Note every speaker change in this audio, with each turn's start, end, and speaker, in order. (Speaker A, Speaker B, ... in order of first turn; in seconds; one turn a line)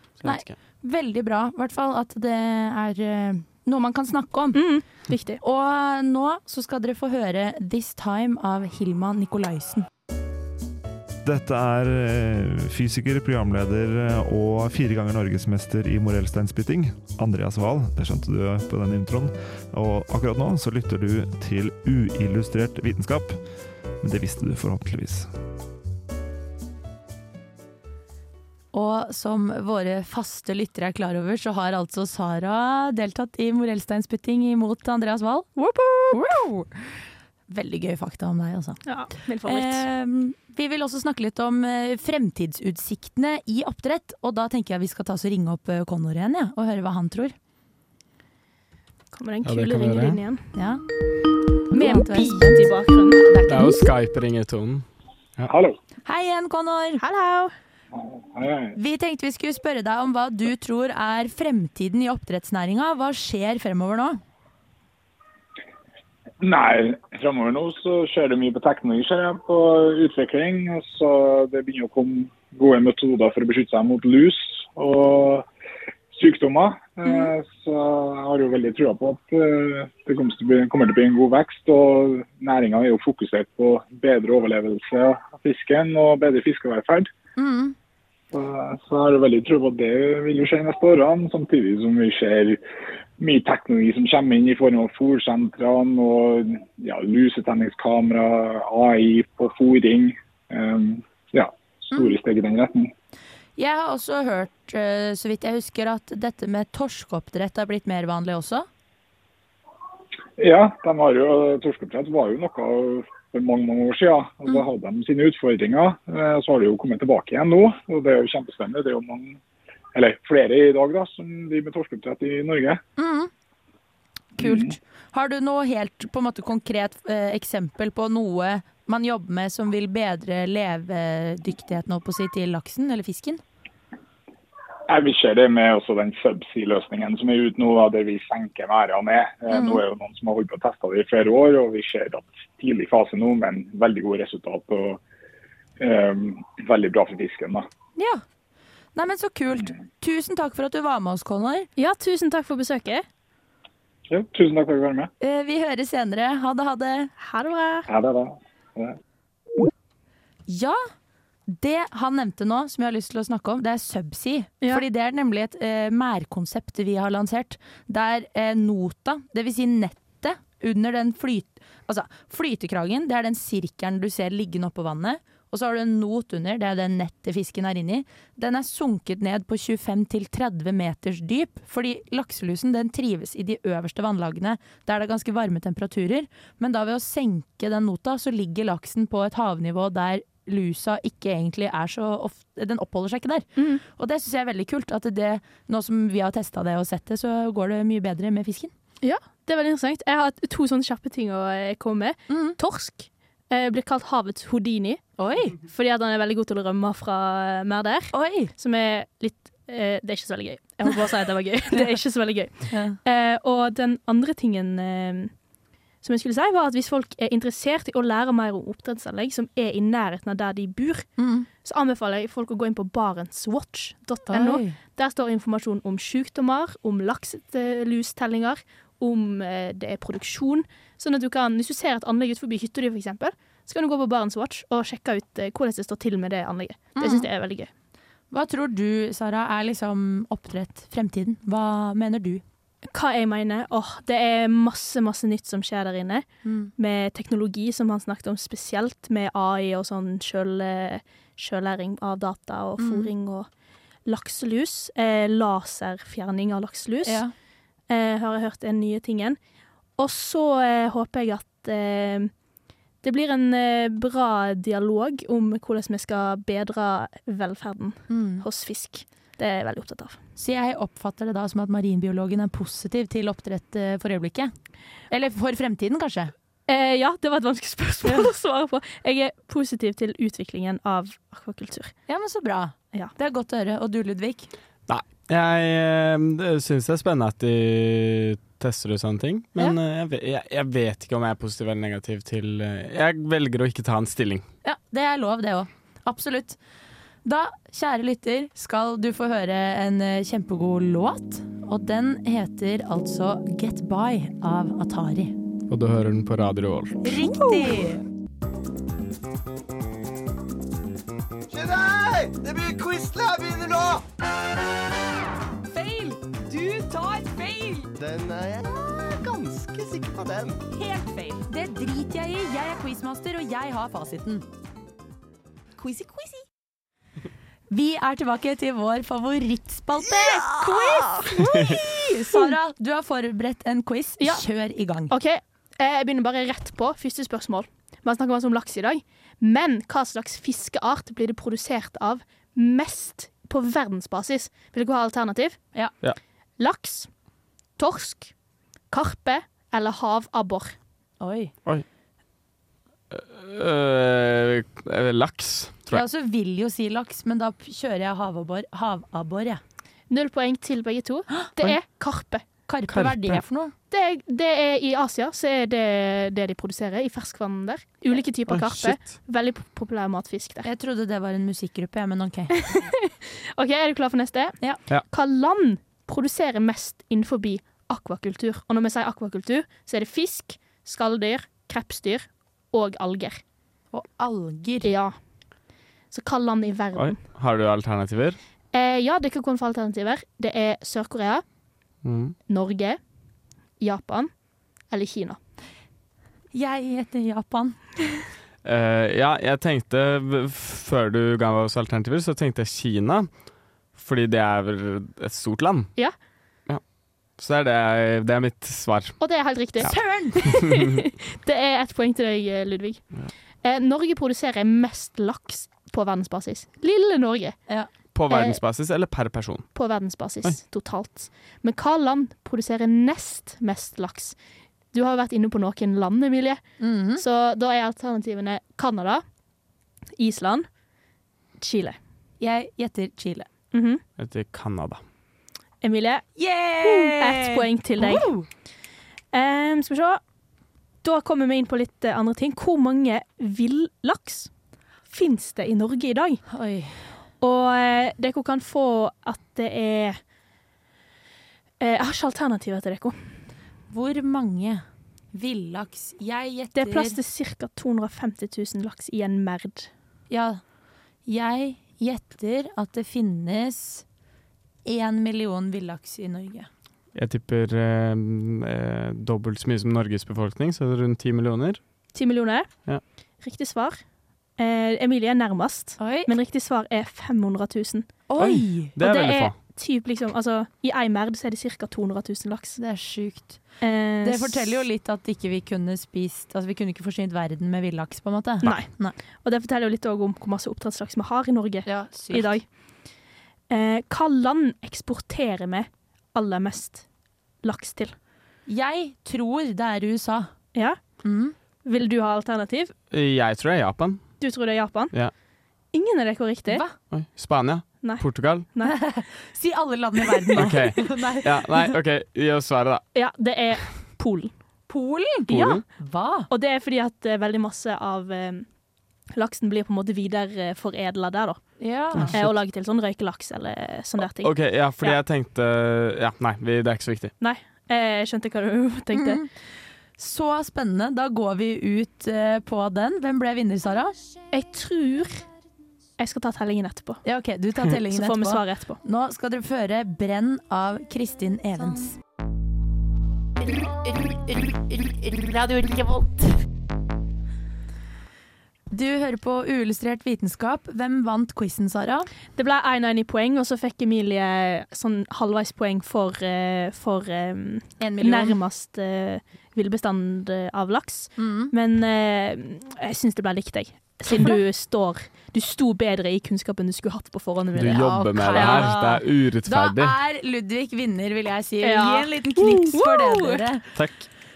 Speaker A: 0.2-0.6
Speaker B: 0.2-4.7
Speaker C: 4.5-5.4
Speaker B: 5.4-9.9
Speaker D: 11.2-23.4
Speaker D: 24.0-25.3
Speaker B: 28.7-35.5
Speaker B: 36.1-47.4
Speaker C: 38.9-39.9
Speaker C: 49.1-50.5
Speaker A: 49.5-50.2
Speaker B: 50.5-50.8
Speaker B: 51.7-53.9
Speaker C: 51.7-53.2
Speaker A: 53.5-54.9
Speaker E: 55.5-55.8
Speaker B: 56.0-57.0
Speaker C: 57.0-57.5
Speaker E: 58.0-58.8
Speaker B: 58.8-64.2
Speaker E: 66.4-75.5
Speaker E: 76.1-87.1
Speaker B: 87.4-87.8
Speaker E: 88.3-92.6
Speaker E: 93.2-102.9
Speaker B: 103.6-108.7
Speaker E: 110.4-119.4
Speaker E: 120.0-122.8
Speaker B: 123.0-123.3
Speaker B: 124.4-133.4
Speaker E: 124.4-124.7
Speaker E: 134.9-145.0
Speaker B: 139.5-139.8
Speaker E: 145.8-147.7
Speaker B: 148.0-148.2
Speaker B: 148.9-151.7
Speaker C: 151.8-153.1
Speaker E: 154.1-155.1
Speaker B: 155.2-157.1
Speaker C: 157.2-157.9
Speaker E: 157.9-159.0
Speaker B: 160.5-160.8
Speaker B: 161.5-198.7
Speaker C: 193.6-193.8
Speaker C: 199.0-205.0
Speaker B: 202.3-202.6
Speaker B: 205.2-205.6
Speaker C: 205.6-215.3
Speaker B: 208.1-208.5
Speaker B: 212.7-213.0
Speaker C: 216.0-237.7
Speaker B: 221.2-221.5
Speaker B: 224.3-224.8
Speaker B: 237.0-237.3
Speaker B: 238.3-242.4
Speaker C: 242.9-246.3
Speaker B: 246.4-246.7
Speaker C: 246.8-253.5
Speaker B: 252.8-253.1
Speaker C: 254.1-257.2
Speaker B: 257.0-257.4
Speaker C: 257.9-259.4
Speaker C: 260.0-262.3
Speaker C: 263.0-270.2
Speaker B: 268.1-268.5
Speaker B: 270.4-274.5
Speaker B: 275.1-276.3
Speaker C: 276.7-281.9
Speaker B: 282.1-284.5
Speaker A: 284.9-294.4
Speaker B: 294.6-296.6
Speaker B: 297.2-305.4
Speaker A: 305.7-307.0
Speaker B: 307.0-308.0
Speaker F: 311.5-314.0
Speaker F: 317.9-320.6
Speaker B: 321.4-324.5
Speaker B: 327.7-335.1
Speaker C: 334.2-334.4
Speaker C: 335.1-345.8
Speaker C: 346.6-347.2
Speaker C: 347.8-348.4
Speaker C: 348.9-350.8
Speaker B: 351.2-351.5
Speaker A: 353.1-356.0
Speaker B: 355.9-359.6
Speaker C: 360.1-362.5
Speaker B: 362.7-363.7
Speaker A: 362.9-363.4
Speaker C: 363.9-370.7
Speaker A: 368.5-369.1
Speaker B: 370.6-372.6
Speaker C: 373.1-383.4
Speaker B: 383.9-384.9
Speaker C: 384.8-385.2
Speaker C: 386.1-387.2
Speaker A: 386.9-388.4
Speaker C: 388.7-391.4
Speaker A: 392.0-392.4
Speaker C: 392.5-393.0
Speaker C: 393.8-394.3
Speaker C: 394.9-395.4
Speaker B: 396.5-398.3
Speaker A: 398.6-406.0
Speaker A: 407.4-409.9
Speaker C: 409.2-410.8
Speaker B: 409.8-410.8
Speaker C: 411.4-417.7
Speaker A: 418.1-420.6
Speaker C: 418.3-418.6
Speaker C: 419.7-424.4
Speaker C: 424.9-429.2
Speaker B: 426.8-427.2
Speaker C: 430.2-430.8
Speaker C: 431.6-432.0
Speaker B: 432.4-433.5
Speaker C: 433.7-434.0
Speaker A: 434.2-435.0
Speaker C: 435.8-438.3
Speaker B: 436.4-438.5
Speaker C: 439.3-440.2
Speaker C: 441.0-444.5
Speaker C: 445.1-446.4
Speaker B: 446.5-447.2
Speaker C: 447.4-450.2
Speaker C: 451.8-453.4
Speaker B: 453.9-457.2
Speaker C: 456.8-459.9
Speaker B: 460.3-460.6
Speaker B: 461.3-464.1
Speaker B: 464.9-466.7
Speaker A: 467.1-471.8
Speaker C: 472.1-474.1
Speaker C: 474.6-478.3
Speaker B: 476.0-476.3
Speaker B: 478.3-479.0
Speaker A: 478.4-479.6
Speaker C: 479.0-482.8
Speaker B: 482.8-489.1
Speaker C: 483.8-484.8
Speaker C: 488.6-492.8
Speaker B: 491.9-492.6
Speaker C: 493.7-497.1
Speaker C: 497.6-498.1
Speaker B: 498.7-500.5
Speaker C: 500.7-501.2
Speaker B: 501.2-501.6
Speaker C: 501.8-502.9
Speaker A: 503.1-504.5
Speaker C: 504.4-505.1
Speaker C: 505.9-506.8
Speaker B: 506.7-507.0
Speaker A: 507.1-508.7
Speaker C: 508.0-509.0
Speaker B: 509.0-511.9
Speaker A: 510.6-513.1
Speaker C: 513.1-514.9
Speaker B: 514.9-516.5
Speaker C: 515.5-515.8
Speaker A: 515.5-515.8
Speaker C: 516.5-518.7
Speaker C: 519.3-525.2
Speaker B: 521.8-522.4
Speaker A: 522.1-522.5
Speaker A: 524.4-527.3
Speaker C: 527.4-529.4
Speaker B: 529.1-529.6
Speaker B: 530.2-534.2
Speaker C: 534.5-535.5
Speaker C: 536.2-537.2
Speaker B: 537.2-542.2
Speaker C: 538.1-539.0
Speaker B: 543.6-546.5
Speaker B: 548.9-552.3
Speaker C: 552.6-568.9
Speaker B: 558.0-558.6
Speaker B: 561.4-561.7
Speaker A: 567.8-570.2
Speaker B: 567.9-574.0
Speaker C: 571.8-573.6
Speaker A: 574.0-574.3